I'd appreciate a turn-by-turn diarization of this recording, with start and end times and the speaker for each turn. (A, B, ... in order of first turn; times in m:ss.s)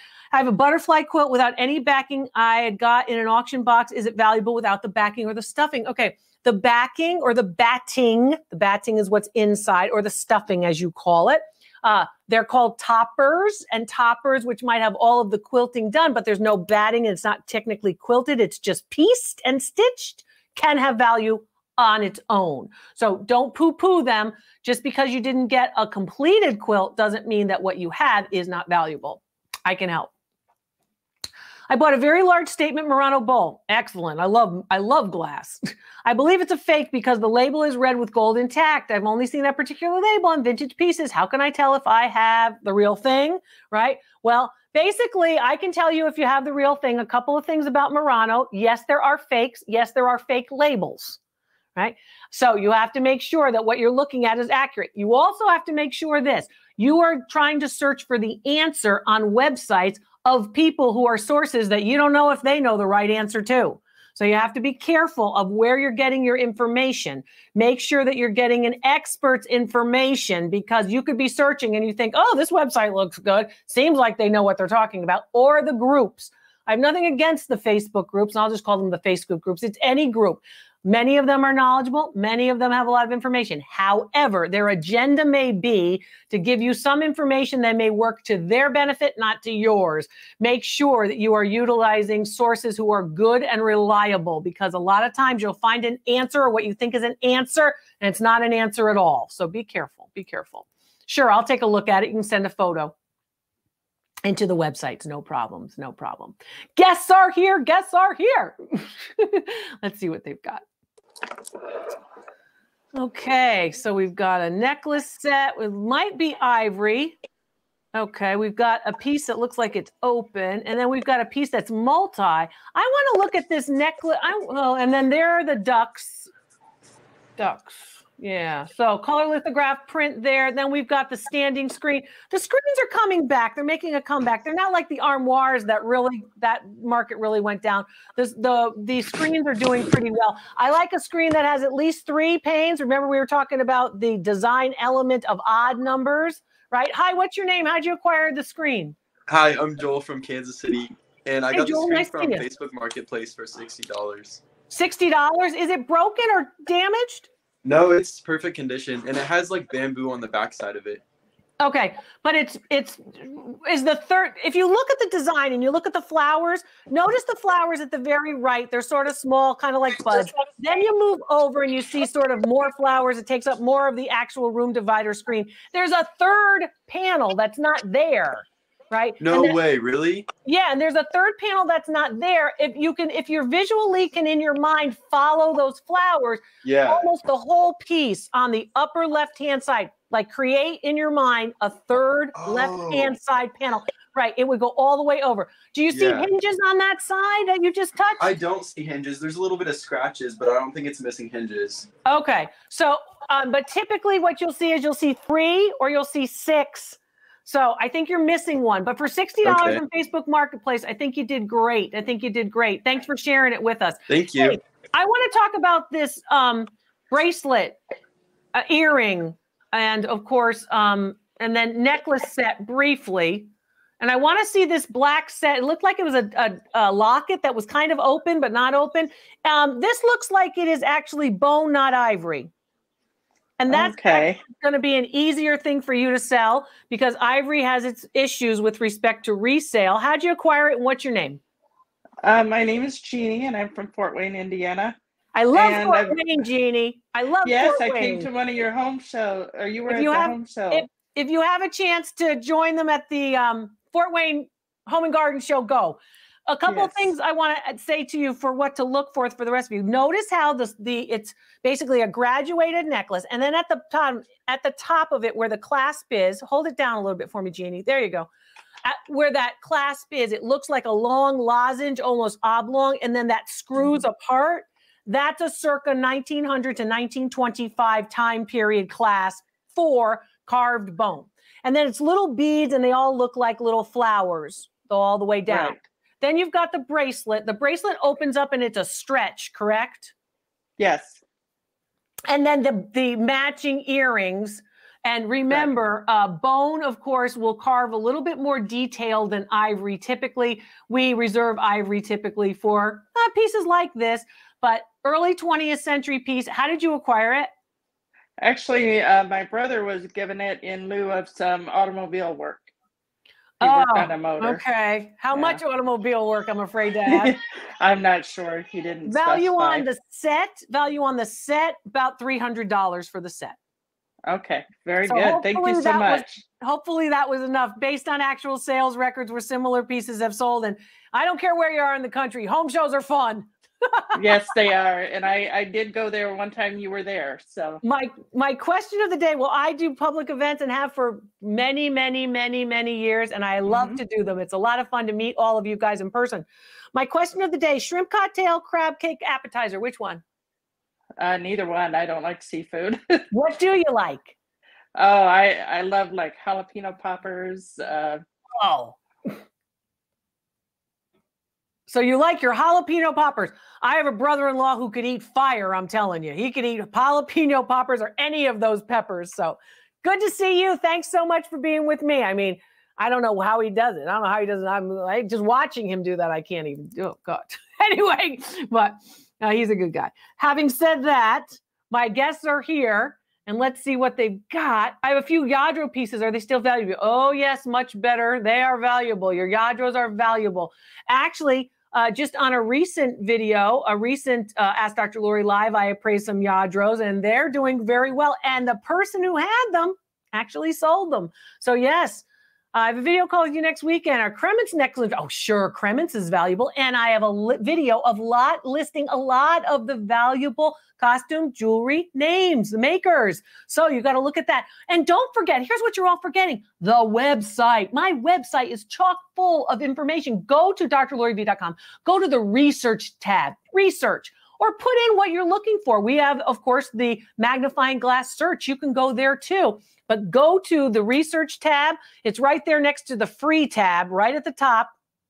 0:00.3-0:30.1 A
0:31.7-0:51.2 A
0:51.8-1:42.9 A
1:44.2-1:50.6 A
1:52.9-1:57.1 A
1:57.9-2:06.3 A
2:07.4-2:29.0 A
2:29.3-2:34.4 B
2:31.5-2:32.4 A
2:34.7-2:37.3 A
2:37.6-2:41.0 B
2:41.6-2:59.6 A
2:59.2-3:00.3 B
3:00.4-3:18.3 A
3:06.6-3:07.1 B
3:12.3-3:13.1 B
3:15.9-3:16.3 B
3:18.2-3:21.9 B
3:22.1-3:37.8 A
3:29.4-3:29.8 B
3:34.1-3:34.6 B
3:38.6-3:43.5 A
3:44.0-3:52.5 A
3:53.6-4:01.4 A
3:53.7-3:54.4 C
4:02.2-4:05.0 C
4:05.3-4:08.3 A
4:05.5-4:06.4 C
4:07.4-4:10.9 C
4:09.9-4:28.3 A
4:16.7-4:17.1 C
4:28.8-4:50.1 A
4:45.5-4:45.8 C
4:50.8-4:51.2 C
4:52.3-5:07.5 A
5:08.4-5:12.7 C
5:13.6-5:14.6 C
5:13.6-5:17.3 A
5:15.3-5:15.6 C
5:17.1-5:19.9 C
5:19.0-5:23.6 A
5:24.3-5:26.4 C
5:25.0-5:34.4 A
5:34.2-5:37.8 C
5:37.8-5:50.2 A
5:43.6-5:44.0 C
5:51.2-5:53.2 C
5:53.3-5:54.3 A
5:55.0-5:58.2 C
5:58.6-5:59.0 A
6:01.9-7:14.9 A